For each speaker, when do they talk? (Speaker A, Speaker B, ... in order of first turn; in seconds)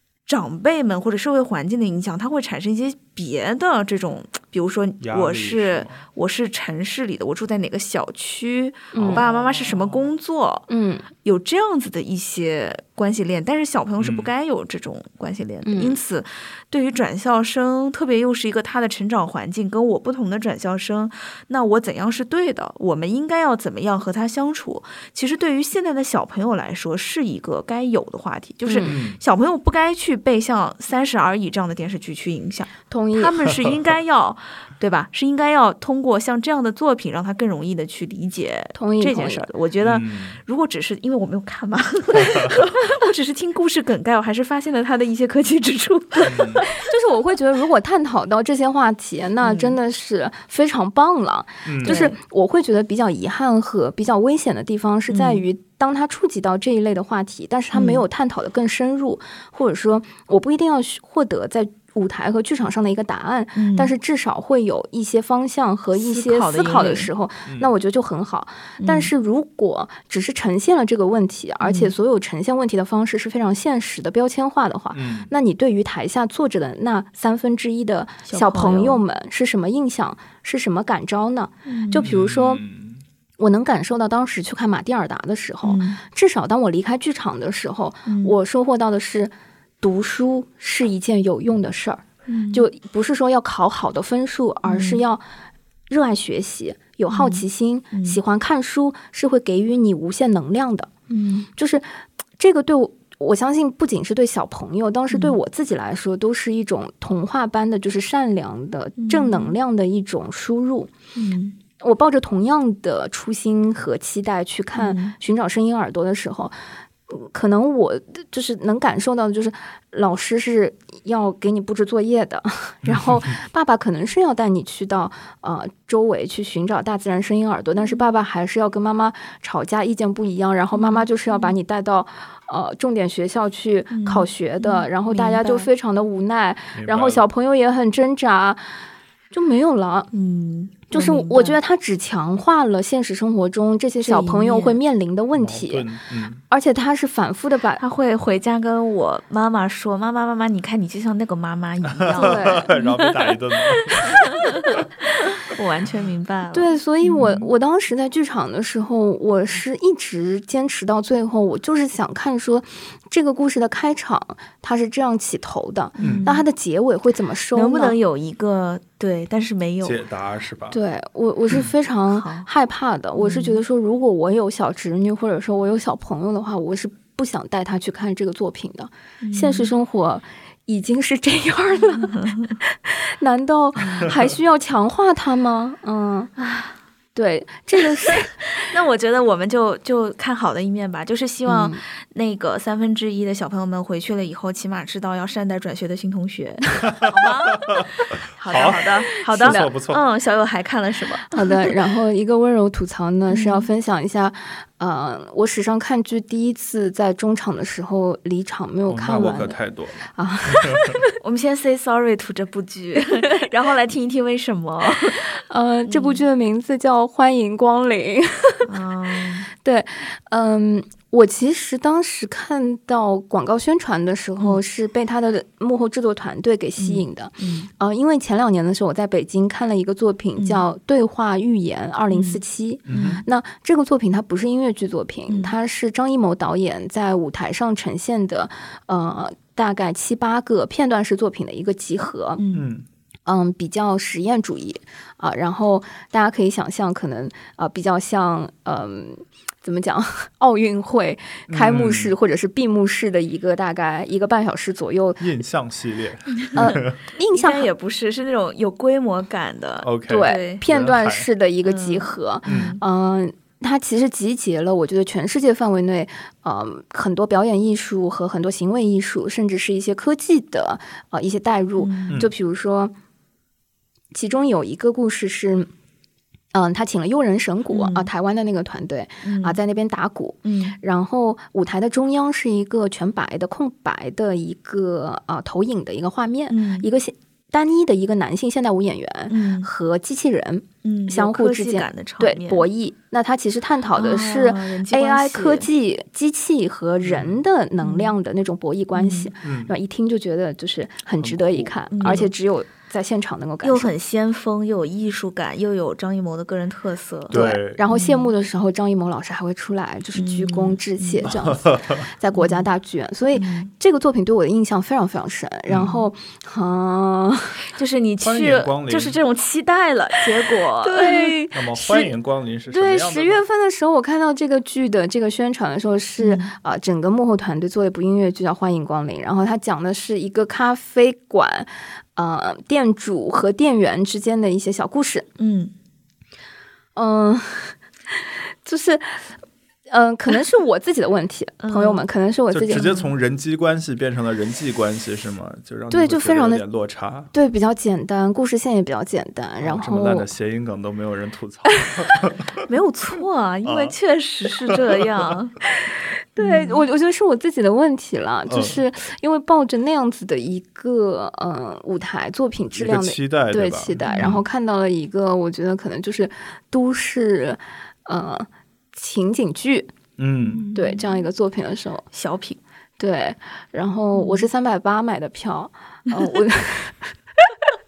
Speaker A: 0.3-10.7, 11.2-46.8, 49.4-49.8, 51.8-52.1, 55.1-55.4, 57.7-58.0, 63.5-63.9, 66.0-67.1, 68.8-69.1, 71.6-71.9, 78.2-79.0, 81.7-82.1, 85.6-86.0, 88.0-88.3, 92.3-92.7, 94.6-95.0, 97.1-98.2, 101.1-101.5, 105.1-105.3, 109.0-109.5, 111.2-111.5, 114.8-115.1, 130.7-131.5, 133.9-135.7, 140.1-141.6, 144.0-144.8, 147.8-157.3, 166.0-166.4, 167.5-170.0, 172.1-172.5, 173.2-173.6, 179.2-179.7, 181.8-182.6, 183.8-184.1, 186.4-186.7, 188.0-197.8, 198.3-201.6, 203.3-203.7, 211.2-215.3, 215.9-216.2, 218.7-219.5, 226.8-227.7, 230.4-230.6, 232.1-233.2, 235.3-235.5, 242.4-242.7, 256.4-256.8, 257.3-260.6, 261.6-262.8, 271.8-272.2, 277.7-278.1, 279.2-279.6, 280.4-280.8, 286.5-286.9, 289.3-289.7, 290.8-292.7, 293.9-295.7, 297.8-298.1, 298.9-299.3, 301.9-302.3, 303.6-308.3, 310.1-311.3, 312.4-312.7, 313.3-313.7, 317.7-321.4, 326.2-326.5, 335.4-335.7, 341.6-342.0, 342.7-343.1, 352.6-355.5, 356.4-356.8, 364.1-364.4, 370.5-371.2, 372.1-372.6, 374.1-374.5
Speaker B: 5.0-6.0, 9.0-10.1, 14.0-14.3, 28.8-29.2, 39.8-40.4, 46.2-46.6, 51.6-52.0, 74.9-75.3, 82.0-83.0, 136.7-137.2, 145.3-146.4, 151.9-154.8, 157.2-157.5, 166.0-166.3, 169.8-170.8, 196.9-197.9, 198.5-200.0, 208.9-210.9, 232.9-233.2, 242.5-242.8, 251.5-252.1, 255.2-257.0, 259.8-261.3, 262.5-262.8, 297.0-297.4, 299.4-299.7, 301.2-302.3, 307.3-307.8, 311.2-312.0, 318.2-319.2, 321.5-323.4, 342.5-347.3, 349.6-352.5, 353.6-353.9, 354.6-355.3, 358.5-358.8, 362.7-364.4, 370.2-370.7
Speaker C: 8.9-9.2, 10.7-11.0, 15.6-16.0, 28.6-28.9, 32.9-33.3, 38.8-39.4, 46.7-82.6, 83.4-95.2, 95.9-100.9, 101.5-110.9, 111.8-116.5, 117.1-140.1, 140.9-145.8, 146.5-147.8, 152.1-152.6, 156.5-167.9, 170.7-186.3, 187.1-188.7, 191.4-191.8, 199.3-199.7, 201.3-209.6, 210.1-211.2, 215.3-218.7, 219.6-242.4, 243.2-255.2, 256.5-257.7, 260.1-272.9, 274.1-275.7, 276.5-303.9, 307.3-317.6, 320.8-322.1, 322.7-335.3, 336.9-337.8, 338.6-339.3, 339.9-342.9, 345.9-346.6, 347.3-350.3, 356.4-369.9, 370.7-372.1, 373.0-377.1